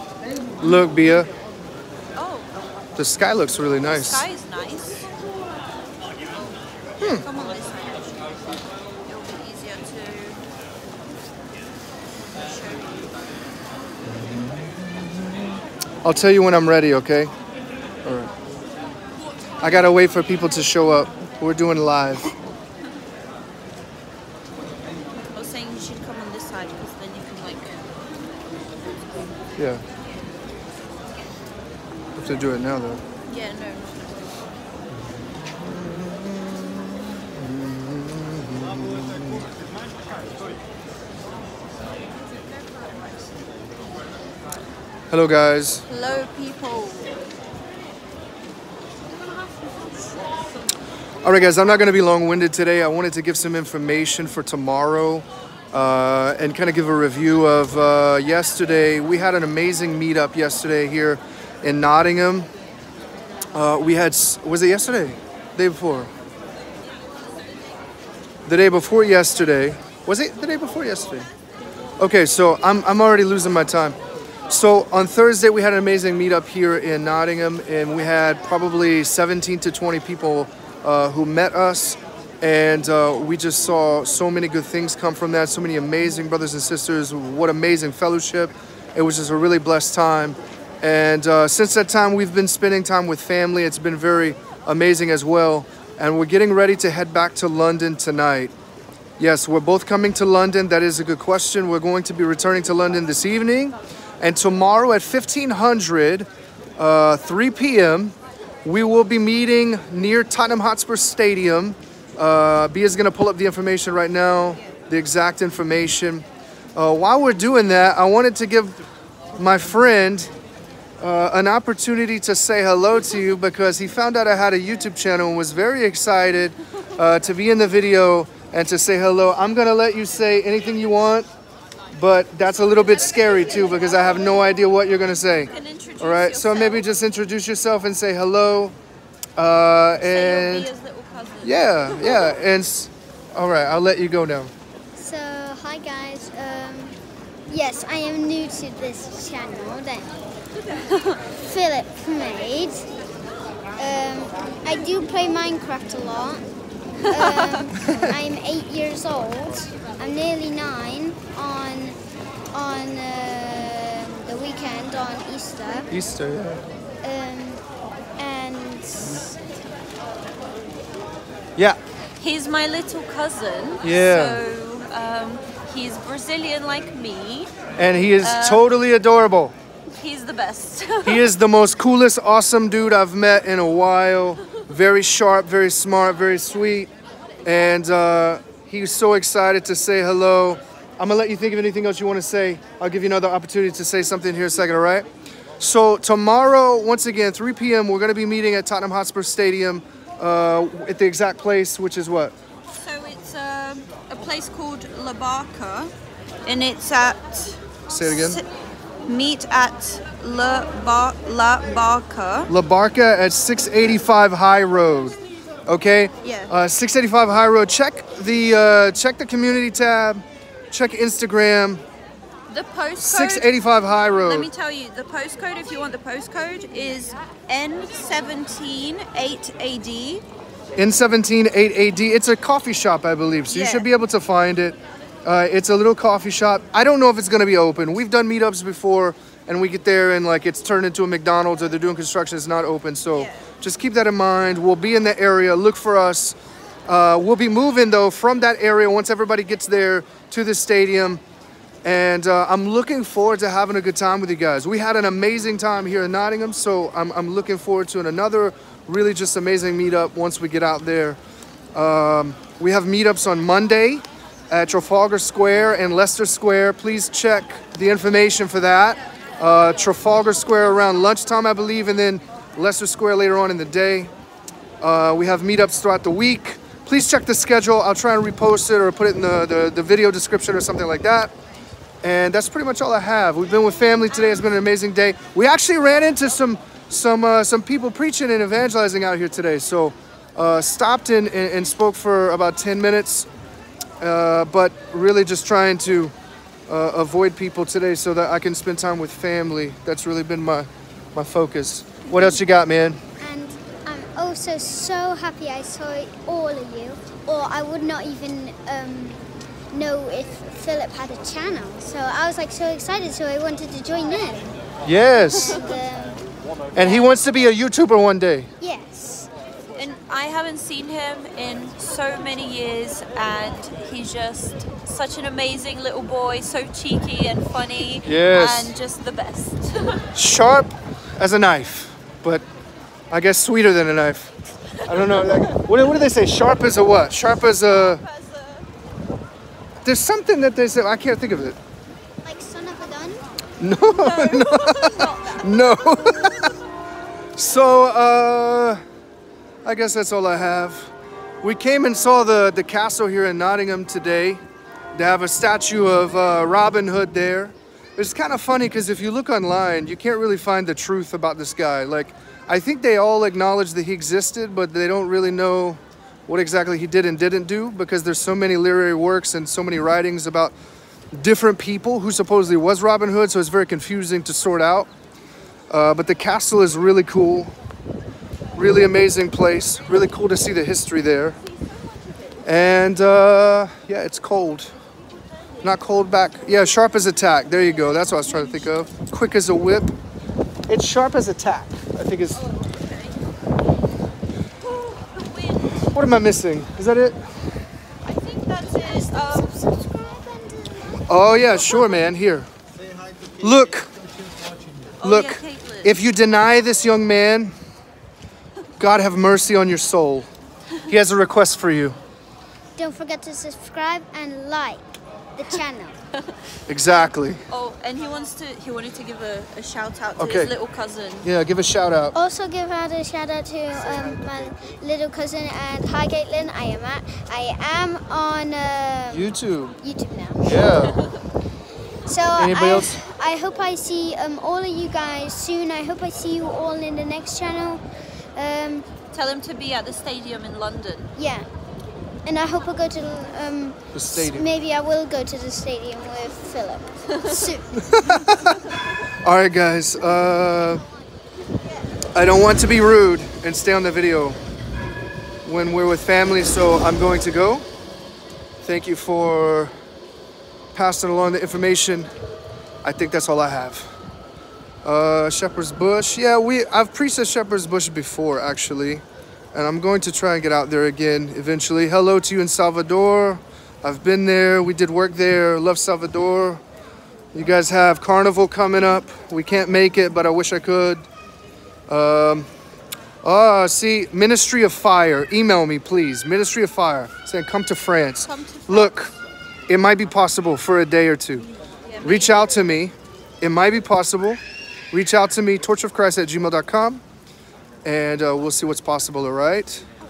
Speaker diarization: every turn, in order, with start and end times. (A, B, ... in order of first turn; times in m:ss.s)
0:00.6-0:01.3 A
0:02.2-0:02.5 B
0:03.0-0:04.2 A
0:03.8-0:05.1 B
0:07.0-0:07.2 A
0:07.2-0:08.3 B
0:09.0-0:10.4 B
0:12.4-0:13.0 B
0:14.0-0:17.3 A
0:18.0-0:18.3 A
0:19.6-0:22.3 A
0:25.3-0:27.8 B
0:29.6-0:29.8 A
0:32.2-0:33.0 A
0:33.2-0:34.3 B
0:35.0-0:39.5 A
0:42.3-0:43.3 B
0:45.1-0:45.8 A
0:45.9-0:47.2 B
0:51.2-1:02.5 A
1:03.5-1:06.1 A
1:08.4-1:11.3 A
1:12.0-1:14.0 A
1:14.5-1:38.5 A
1:39.2-1:58.8 A
1:59.3-2:00.3 A
2:01.0-2:11.3 A
2:11.9-2:18.7 A
2:15.4-2:16.8 B
2:19.4-2:20.7 A
2:20.0-2:22.4 B
2:21.4-2:24.5 A
2:25.0-2:27.0 C
2:27.5-2:30.1 C
2:30.8-2:31.2 B
2:31.3-2:32.9 C
2:33.8-2:36.5 C
2:37.1-2:37.6 B
2:37.1-2:42.0 C
2:42.5-2:45.9 C
2:45.9-2:46.6 A
2:47.0-2:47.6 C
2:48.2-2:49.3 C
2:52.2-2:57.5 B
2:53.8-2:54.4 A
2:57.8-2:59.5 A
2:58.2-2:58.7 B
2:59.9-3:01.3 B
3:01.0-3:06.9 A
3:07.4-3:15.0 A
3:15.6-3:22.3 A
3:22.7-3:25.9 B
3:26.4-3:28.5 B
3:27.9-3:28.4 A
3:29.0-3:32.5 B
3:32.5-3:41.8 A
3:36.2-3:36.5 B
3:42.5-3:43.5 B
3:43.0-3:44.5 A
3:44.1-3:50.2 B
3:50.8-4:11.2 A
3:53.5-3:53.9 B
4:03.1-4:03.5 B
4:11.8-4:21.2 A
4:21.7-4:34.1 A
4:34.8-4:41.3 A
4:42.0-4:53.3 A
4:54.0-4:56.1 A
4:56.7-5:03.0 A
5:02.1-5:02.4 B
5:03.2-5:14.6 C
5:14.8-5:15.6 A
5:15.2-5:16.2 C
5:16.7-5:18.5 A
5:16.7-5:17.1 C
5:18.6-5:19.3 C
5:19.8-5:30.1 B
5:28.0-5:28.7 A
5:30.1-5:32.4 A
5:33.1-5:34.3 A
5:34.8-5:35.6 B
5:34.8-5:38.0 A
5:37.6-5:38.7 B
5:39.8-5:41.6 A
5:42.2-5:43.2 C
5:43.6-5:46.5 A
5:43.9-5:45.8 B
5:47.4-5:48.8 A
5:49.6-5:50.9 A
5:51.4-5:54.4 A
5:54.9-6:10.6 A
6:11.1-6:14.9 A
6:15.7-6:17.5 A
6:18.5-6:21.4 A
6:22.4-6:24.7 A
6:25.6-6:29.9 A
6:30.7-6:32.4 A
6:32.4-6:33.2 B
6:34.6-6:35.9 B
6:35.9-6:37.2 A
6:38.0-6:39.5 B
6:38.6-6:41.8 C
6:41.1-6:42.5 A
6:43.4-6:43.9 A
6:45.0-6:46.0 B
6:45.0-6:47.5 A
6:48.8-6:50.3 A
6:50.9-6:52.0 A
6:52.8-6:56.0 C
6:56.7-6:57.4 A
6:57.5-7:01.3 B
7:00.2-7:00.5 A
7:01.2-7:02.1 A
7:02.1-7:10.6 C
7:09.1-7:09.8 A
7:10.4-7:11.0 A
7:12.0-7:17.8 C
7:12.4-7:13.0 A
7:18.3-7:18.9 C
7:19.1-7:21.1 B
7:21.2-7:21.5 C
7:22.2-7:27.8 C
7:23.9-7:24.5 A
7:27.9-7:28.6 A
7:29.2-7:30.9 A
7:32.1-7:34.4 A
7:35.4-7:37.6 A
7:38.6-7:39.7 A
7:40.7-7:42.1 A
7:42.8-7:43.9 A
7:44.8-7:49.0 A
7:49.5-7:56.6 A
7:57.3-8:01.0 A
8:01.9-8:02.5 A
8:03.2-8:09.1 A
8:08.2-8:09.0 B
8:09.7-8:11.5 A
8:11.9-8:12.4 B
8:12.0-8:14.4 A
8:14.9-8:17.0 A
8:17.8-8:19.8 A